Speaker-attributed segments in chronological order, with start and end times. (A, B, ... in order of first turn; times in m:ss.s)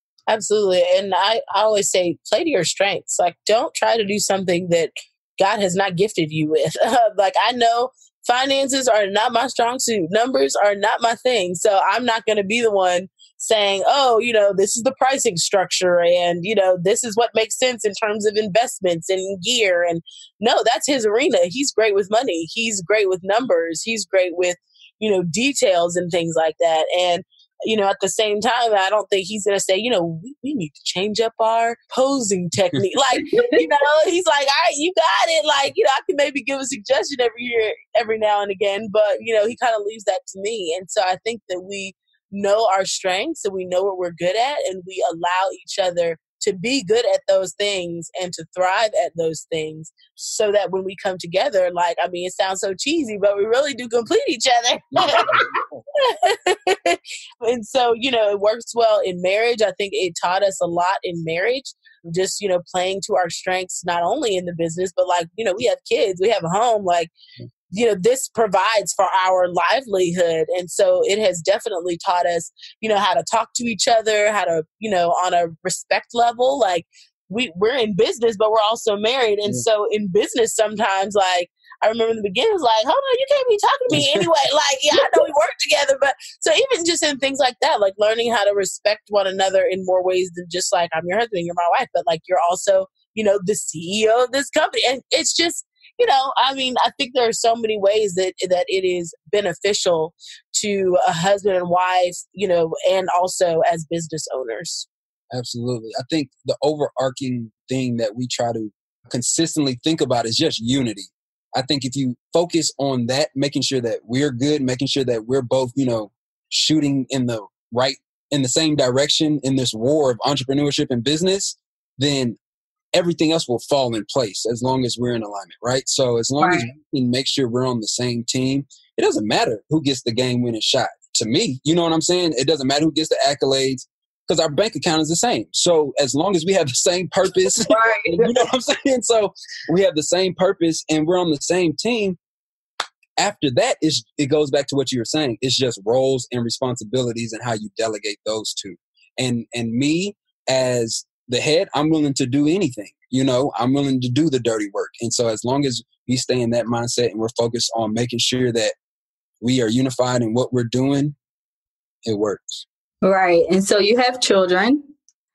0:00.3-1:07.1 A
0:33.3-0:33.6 B
0:55.0-0:55.6 C
1:07.7-1:44.9 A
1:23.9-1:24.3 C
1:45.3-2:02.4 C
2:02.9-2:22.2 C
2:06.4-2:06.7 B
2:17.6-2:18.4 B
2:23.2-2:38.7 C
2:39.4-2:41.2 C
2:42.0-2:42.6 C
2:43.0-2:44.8 B